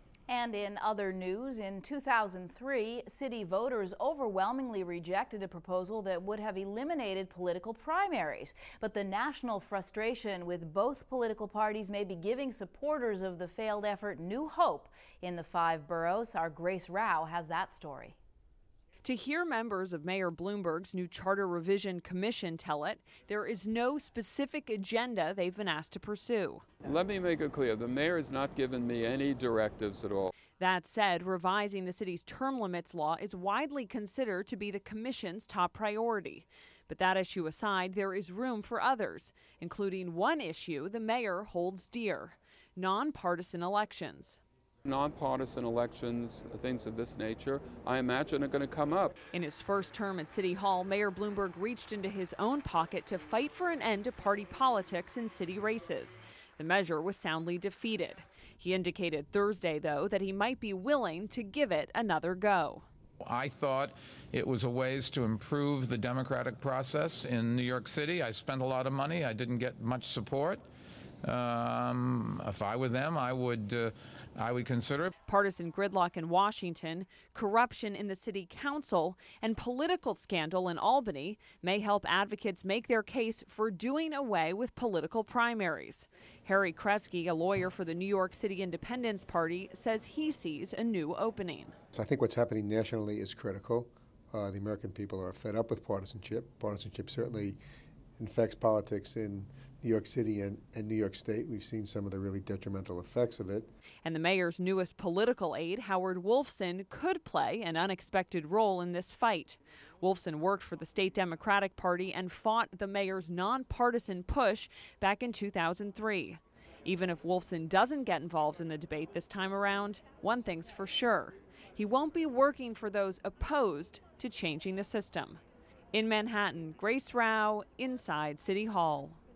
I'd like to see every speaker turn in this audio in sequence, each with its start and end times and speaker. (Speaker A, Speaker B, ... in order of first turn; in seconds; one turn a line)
Speaker A: 0.3-18.2
Speaker B: 19.0-26.7
Speaker C: 26.8-30.3
Speaker B: 30.6-44.4
Speaker C: 44.9-49.2
Speaker B: 49.3-62.8
Speaker D: 63.2-70.6
Speaker D: 71.2-75.1
Speaker B: 75.3-91.8
Speaker E: 91.9-97.6
Speaker E: 98.2-103.7
Speaker B: 104.0-125.4
Speaker B: 125.9-129.2